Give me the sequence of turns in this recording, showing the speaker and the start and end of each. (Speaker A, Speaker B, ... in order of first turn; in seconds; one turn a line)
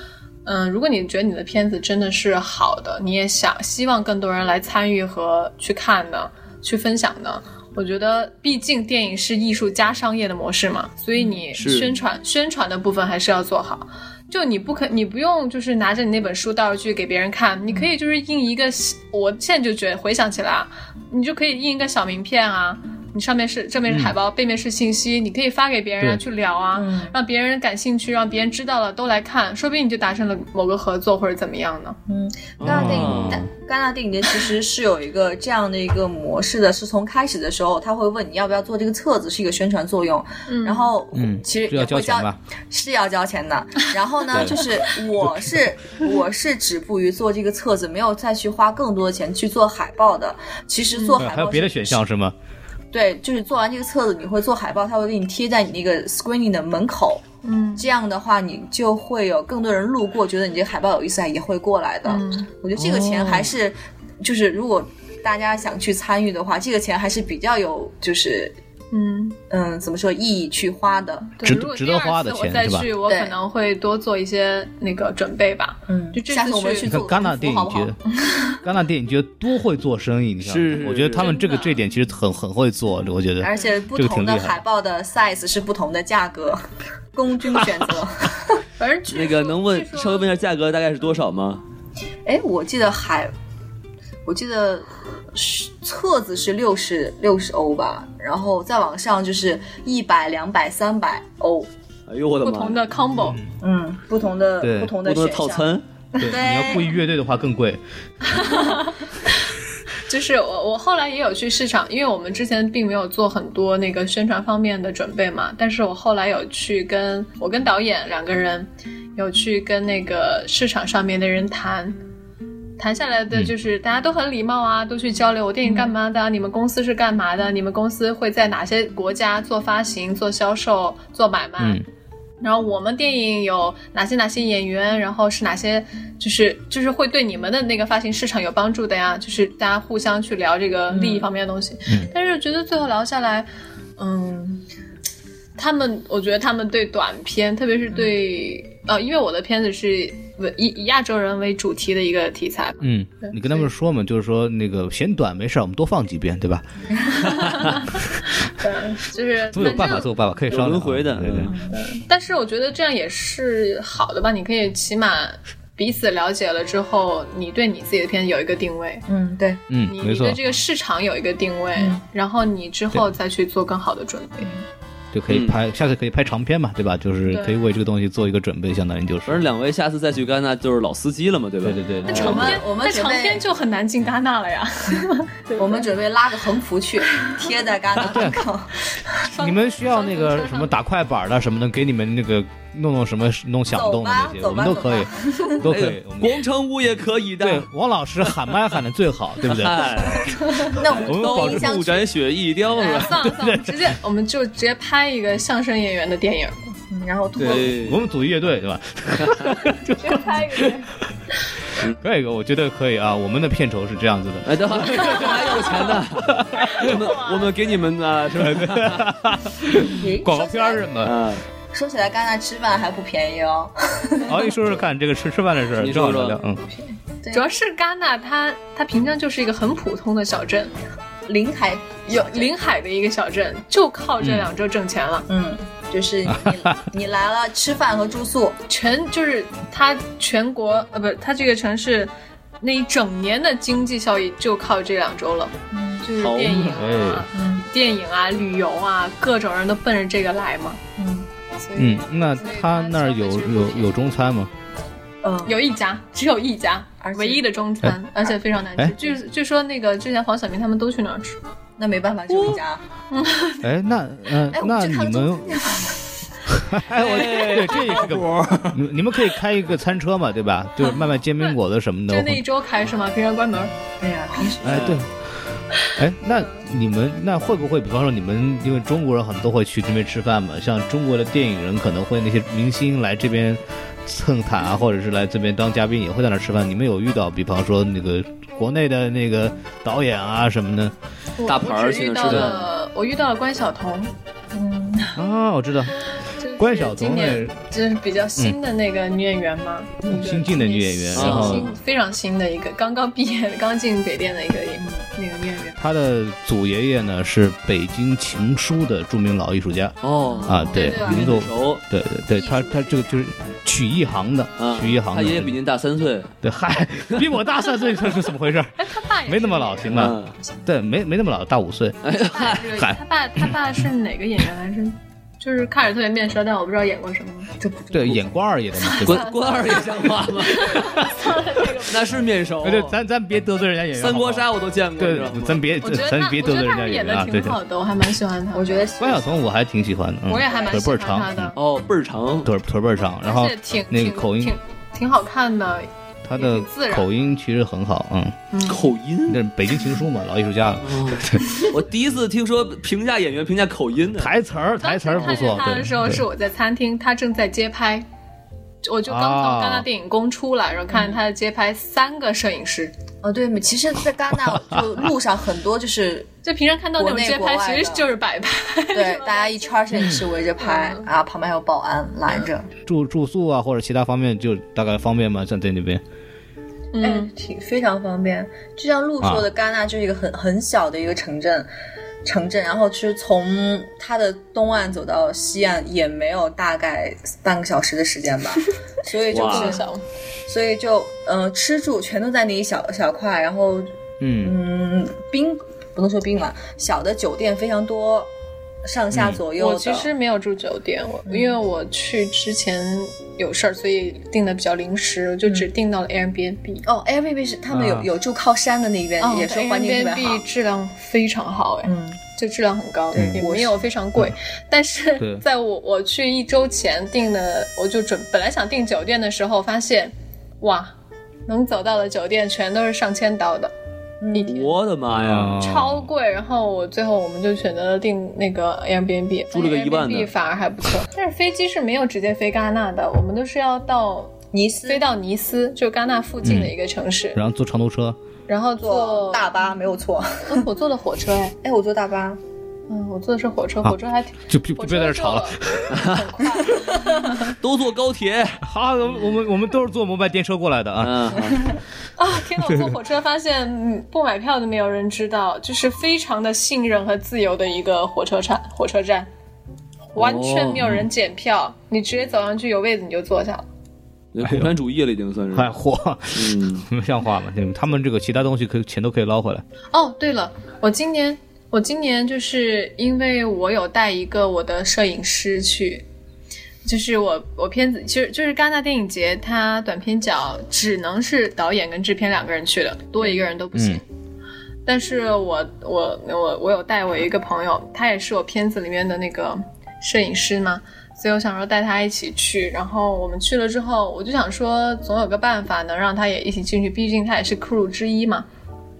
Speaker A: 0.4-32.0
Speaker B: 11.6-11.9
Speaker C: 26.7-27.1
Speaker C: 32.1-52.0
Speaker B: 32.6-33.4
Speaker D: 32.6-33.5
Speaker A: 40.5-40.9
Speaker D: 41.1-42.4
Speaker D: 44.3-44.6
Speaker A: 50.9-51.2
Speaker D: 51.2-52.3
Speaker C: 52.9-57.2
Speaker A: 57.4-57.9
Speaker C: 57.8-68.5
Speaker A: 62.0-62.5
Speaker B: 62.8-63.5
Speaker A: 68.9-69.4
Speaker C: 69.5-71.4
Speaker A: 71.4-77.0
Speaker D: 71.4-72.9
Speaker C: 73.0-73.3
Speaker C: 75.9-78.0
Speaker D: 76.8-78.0
Speaker D: 78.5-84.6
Speaker B: 80.4-81.3
Speaker A: 81.1-81.8
Speaker C: 83.4-88.6
Speaker A: 88.8-90.3
Speaker B: 89.1-91.6
Speaker C: 92.2-93.3
Speaker C: 94.2-101.7
Speaker B: 102.1-102.8
Speaker A: 102.4-103.4
Speaker D: 103.2-103.5
Speaker C: 103.6-106.9
Speaker D: 104.6-104.9
Speaker B: 105.0-105.8
Speaker D: 106.2-107.8
Speaker A: 108.2-109.4
Speaker A: 110.1-122.0
Speaker A: 122.8-131.8
Speaker D: 131.6-131.8
Speaker A: 132.4-144.6
Speaker C: 140.9-141.3
Speaker A: 145.6-153.6
Speaker D: 152.8-158.0
Speaker A: 157.0-160.1
Speaker D: 159.5-161.5
Speaker B: 160.5-161.5
Speaker C: 161.4-161.7
Speaker A: 161.7-169.1
Speaker C: 169.1-169.6
Speaker D: 169.7-170.4
Speaker A: 169.8-174.6
Speaker C: 171.8-172.0
Speaker D: 175.1-179.4
Speaker B: 175.3-175.6
Speaker A: 177.3-177.8
Speaker B: 179.2-182.5
Speaker D: 181.6-182.6
Speaker A: 182.1-185.9
Speaker C: 182.1-183.4
Speaker C: 185.6-188.9
Speaker D: 188.0-188.4
Speaker A: 189.2-190.7
Speaker D: 189.4-195.1
Speaker C: 193.7-195.6
Speaker D: 195.6-196.4
Speaker B: 195.6-197.7
Speaker D: 197.4-200.3
Speaker B: 199.4-203.1
Speaker C: 200.7-202.1
Speaker D: 201.0-201.7
Speaker A: 202.8-206.7
Speaker D: 203.1-203.9
Speaker C: 206.9-207.8
Speaker D: 207.4-210.7
Speaker B: 207.4-208.0
Speaker A: 210.0-210.9
Speaker D: 212.0-215.3
Speaker B: 214.4-219.1
Speaker A: 215.1-215.5
Speaker D: 216.2-217.0
Speaker A: 216.8-217.4
Speaker D: 218.5-221.2
Speaker C: 219.9-220.9
Speaker B: 221.0-221.4
Speaker C: 221.7-224.6
Speaker D: 224.2-226.6
Speaker B: 225.8-226.4
Speaker C: 226.6-227.4
Speaker A: 227.3-230.7
Speaker C: 231.2-232.5
Speaker A: 232.1-235.3
Speaker D: 234.2-234.5
Speaker C: 235.3-238.6
Speaker D: 236.3-236.7
Speaker A: 238.7-250.8
Speaker C: 245.7-246.1
Speaker B: 246.2-246.8
Speaker D: 246.7-247.3
Speaker C: 247.3-247.7
Speaker C: 251.0-251.3
Speaker A: 251.6-254.1
Speaker D: 251.8-254.5
Speaker C: 255.2-255.6
Speaker A: 255.4-261.4
Speaker C: 257.0-257.4
Speaker C: 261.8-262.8
Speaker B: 262.3-262.6
Speaker A: 263.1-263.6
Speaker D: 263.6-265.6
Speaker C: 264.5-266.0
Speaker D: 266.5-272.4
Speaker B: 266.9-268.8
Speaker A: 272.1-273.7
Speaker C: 274.0-274.9
Speaker B: 274.6-275.0
Speaker D: 274.6-275.1
Speaker D: 276.0-290.9
Speaker A: 291.4-294.1
Speaker B: 291.5-292.6
Speaker D: 292.2-292.5
Speaker C: 294.6-295.0
Speaker D: 295.1-296.0
Speaker A: 296.4-305.8
Speaker D: 296.6-297.6
Speaker D: 300.1-301.7
Speaker B: 301.1-301.7
Speaker C: 304.8-305.0
Speaker D: 305.8-309.9
Speaker B: 310.0-311.8
Speaker A: 310.2-311.1
Speaker C: 310.4-311.3
Speaker D: 310.5-315.5
Speaker C: 312.3-313.0
Speaker B: 314.6-316.3
Speaker D: 316.4-322.0
Speaker A: 318.8-320.1
Speaker B: 319.9-320.3
Speaker B: 322.0-322.7
Speaker A: 322.2-327.5
Speaker D: 322.8-323.6
Speaker C: 327.6-328.2
Speaker D: 327.9-329.3
Speaker A: 328.8-332.0
Speaker B: 329.0-331.0
Speaker B: 331.8-333.0
Speaker D: 332.6-334.5
Speaker B: 333.9-335.6
Speaker D: 335.0-337.6
Speaker A: 335.8-338.9
Speaker C: 338.5-339.4
Speaker D: 339.0-341.5
Speaker A: 340.3-341.6
Speaker B: 341.6-342.5
Speaker D: 342.4-344.6
Speaker A: 343.2-347.1
Speaker D: 346.2-348.4
Speaker A: 348.5-348.8
Speaker B: 348.7-349.4
Speaker D: 349.3-351.6
Speaker B: 350.8-354.3
Speaker D: 354.2-356.2
Speaker A: 354.8-358.0
Speaker A: 358.8-362.9
Speaker D: 359.1-359.8
Speaker C: 360.9-361.2
Speaker C: 363.2-366.3
Speaker A: 366.4-371.1
Speaker C: 367.0-368.1
Speaker C: 368.9-372.7
Speaker D: 369.9-370.2
Speaker D: 372.9-376.0
Speaker A: 376.9-377.3
Speaker C: 377.0-381.7
Speaker C: 382.2-389.8
Speaker B: 389.3-389.8
Speaker A: 389.3-390.0
Speaker C: 390.5-398.3
Speaker D: 394.2-394.5
Speaker C: 398.8-400.1
Speaker D: 399.1-399.4
Speaker A: 399.5-406.9
Speaker C: 401.3-401.6
Speaker C: 406.8-410.4
Speaker D: 407.7-408.1
Speaker A: 409.2-420.9
Speaker C: 411.8-412.2
Speaker D: 413.1-413.4
Speaker C: 413.2-413.8
Speaker A: 421.5-423.7
Speaker C: 424.2-424.6
Speaker A: 424.3-424.7
Speaker B: 424.5-425.6
Speaker D: 425.1-426.1
Speaker A: 425.6-434.3
Speaker B: 429.5-430.3
Speaker C: 434.5-435.0
Speaker A: 434.9-437.4
Speaker D: 436.4-436.7
Speaker D: 437.4-438.2
Speaker A: 438.5-439.5
Speaker C: 438.8-440.6
Speaker A: 440.4-441.6
Speaker C: 441.6-442.4
Speaker A: 442.9-447.4
Speaker D: 444.5-445.9
Speaker B: 445.9-446.2
Speaker B: 447.4-448.6
Speaker D: 448.6-451.5
Speaker B: 451.0-451.6
Speaker A: 452.2-459.3
Speaker A: 460.1-463.6
Speaker B: 460.2-461.0
Speaker B: 464.3-465.7
Speaker D: 464.4-464.7
Speaker D: 465.5-469.6
Speaker B: 466.3-466.9
Speaker A: 469.9-476.0
Speaker A: 476.8-484.0
Speaker D: 483.7-484.0
Speaker A: 484.9-498.5